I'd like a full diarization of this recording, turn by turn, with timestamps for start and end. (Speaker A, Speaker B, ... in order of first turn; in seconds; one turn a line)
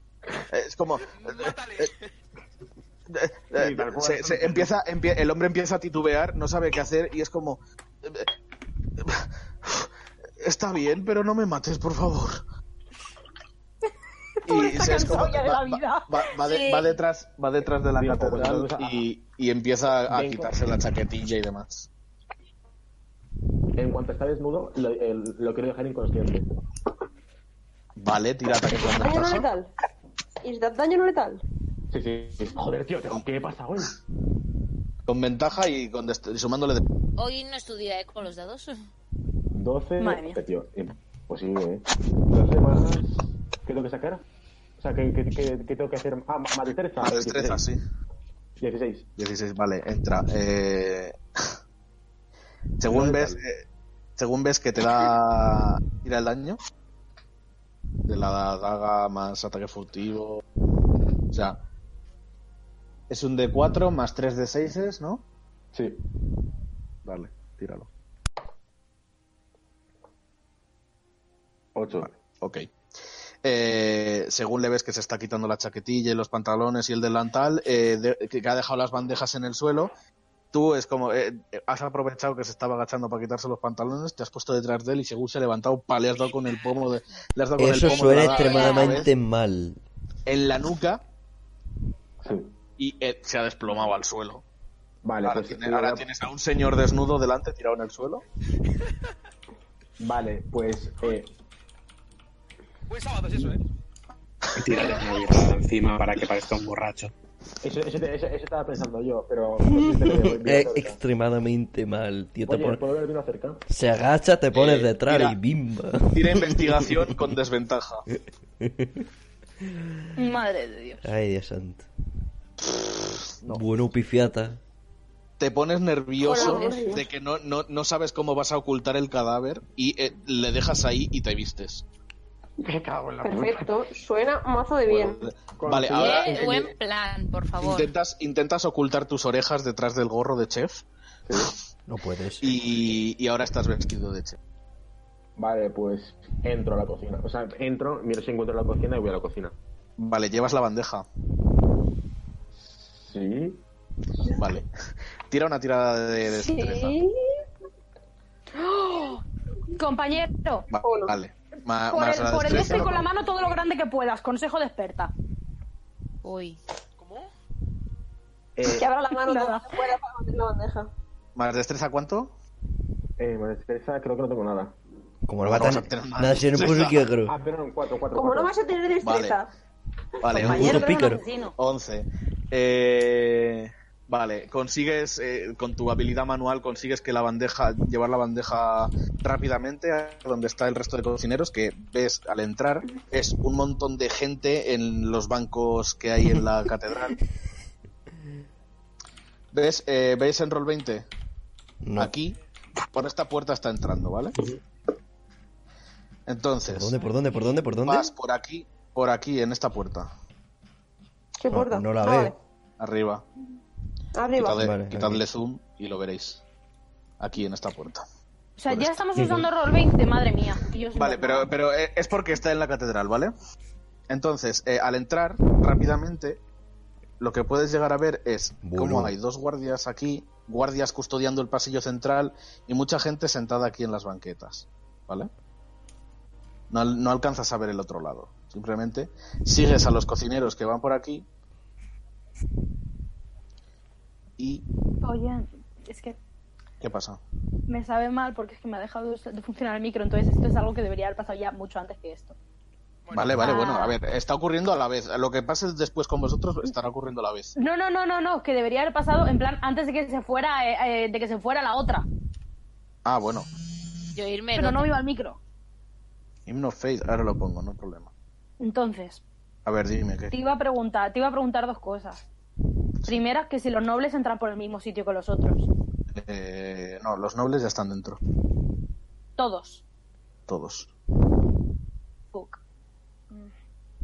Speaker A: 0.5-1.9
Speaker B: 1.1-2.1
Speaker A: 3.1-8.3
Speaker C: 3.5-4.7
Speaker A: 9.0-12.4
Speaker D: 14.4-16.9
Speaker A: 14.4-21.9
Speaker C: 17.9-19.0
Speaker C: 20.1-20.5
Speaker C: 23.8-26.5
Speaker A: 28.0-29.5
Speaker E: 28.8-29.7
Speaker E: 30.4-31.4
Speaker C: 31.9-34.0
Speaker A: 35.1-36.8
Speaker F: 37.2-38.7
Speaker C: 39.5-44.2
Speaker D: 40.0-40.4
Speaker C: 44.8-47.6
Speaker A: 47.0-47.8
Speaker C: 48.6-49.1
Speaker A: 49.2-51.2
Speaker A: 52.8-53.6
Speaker C: 52.9-53.4
Speaker A: 54.2-56.6
Speaker A: 58.0-60.4
Speaker A: 61.3-61.6
Speaker A: 63.1-65.2
Speaker C: 65.7-66.0
Speaker A: 67.0-67.9
Speaker C: 71.7-72.2
Speaker A: 72.0-72.7
Speaker A: 73.4-79.9
Speaker A: 80.5-89.1
Speaker G: 87.6-89.8
Speaker F: 87.9-89.1
Speaker A: 90.2-91.0
Speaker C: 92.2-92.5
Speaker A: 92.8-94.4
Speaker C: 95.0-96.1
Speaker A: 95.2-98.2
Speaker C: 100.0-101.3
Speaker B: 102.9-103.7
Speaker H: 104.6-107.1
Speaker C: 107.6-111.0
Speaker G: 109.6-112.8
Speaker C: 112.5-113.6
Speaker G: 113.7-117.3
Speaker A: 114.5-115.4
Speaker A: 116.1-118.0
Speaker G: 118.6-119.0
Speaker D: 120.2-121.1
Speaker G: 121.0-121.9
Speaker G: 123.5-124.6
Speaker A: 125.4-131.8
Speaker E: 126.2-127.1
Speaker D: 126.3-126.7
Speaker C: 132.6-133.7
Speaker E: 133.2-135.2
Speaker A: 134.8-136.5
Speaker C: 135.6-136.7
Speaker F: 136.0-137.9
Speaker A: 137.6-141.5
Speaker C: 141.3-141.5
Speaker G: 141.9-142.6
Speaker A: 142.4-144.4
Speaker C: 145.4-149.5
Speaker A: 150.0-151.1
Speaker C: 152.6-153.6
Speaker A: 154.3-154.7
Speaker A: 155.3-157.0
Speaker E: 156.2-157.4
Speaker D: 158.5-159.2
Speaker D: 159.8-160.7
Speaker A: 160.7-163.1
Speaker E: 160.8-161.1
Speaker D: 161.9-165.1
Speaker C: 162.5-162.9
Speaker F: 166.2-166.6
Speaker B: 167.0-167.3
Speaker C: 168.6-168.8
Speaker E: 168.6-170.9
Speaker D: 169.1-169.7
Speaker A: 171.3-172.3
Speaker C: 173.2-174.8
Speaker G: 175.3-177.3
Speaker A: 175.4-177.1
Speaker C: 177.2-178.5
Speaker E: 178.1-179.5
Speaker A: 179.0-179.4
Speaker A: 180.2-180.9
Speaker D: 180.3-181.5
Speaker G: 180.3-181.2
Speaker A: 181.6-197.2
Speaker A: 199.5-201.1
Speaker G: 201.8-202.1
Speaker A: 202.0-202.4
Speaker A: 202.9-204.4
Speaker A: 206.3-207.0
Speaker G: 206.7-208.1
Speaker A: 207.8-210.1
Speaker E: 211.4-212.4
Speaker G: 211.5-212.3
Speaker A: 212.8-213.2
Speaker E: 214.1-214.6
Speaker A: 214.3-216.4
Speaker G: 214.6-215.2
Speaker A: 217.2-218.0
Speaker D: 218.6-221.5
Speaker A: 218.7-219.0
Speaker H: 219.2-219.4
Speaker A: 220.9-223.3
Speaker A: 224.1-226.4
Speaker A: 227.2-235.3
Speaker G: 228.6-229.1
Speaker A: 236.7-241.2
Speaker A: 244.4-244.6
Speaker D: 245.0-246.2
Speaker A: 246.8-247.2
Speaker D: 247.7-252.3
Speaker B: 253.1-253.4
Speaker A: 253.1-257.5
Speaker D: 253.4-254.0
Speaker D: 257.6-262.1
Speaker A: 263.0-263.5
Speaker F: 264.1-264.9
Speaker D: 264.5-265.4
Speaker A: 266.4-268.1
Speaker D: 268.6-269.2
Speaker A: 269.6-270.3
Speaker D: 270.3-272.2
Speaker D: 273.1-275.7
Speaker A: 276.1-278.2
Speaker D: 279.4-279.8
Speaker A: 280.5-280.9
Speaker D: 282.3-282.6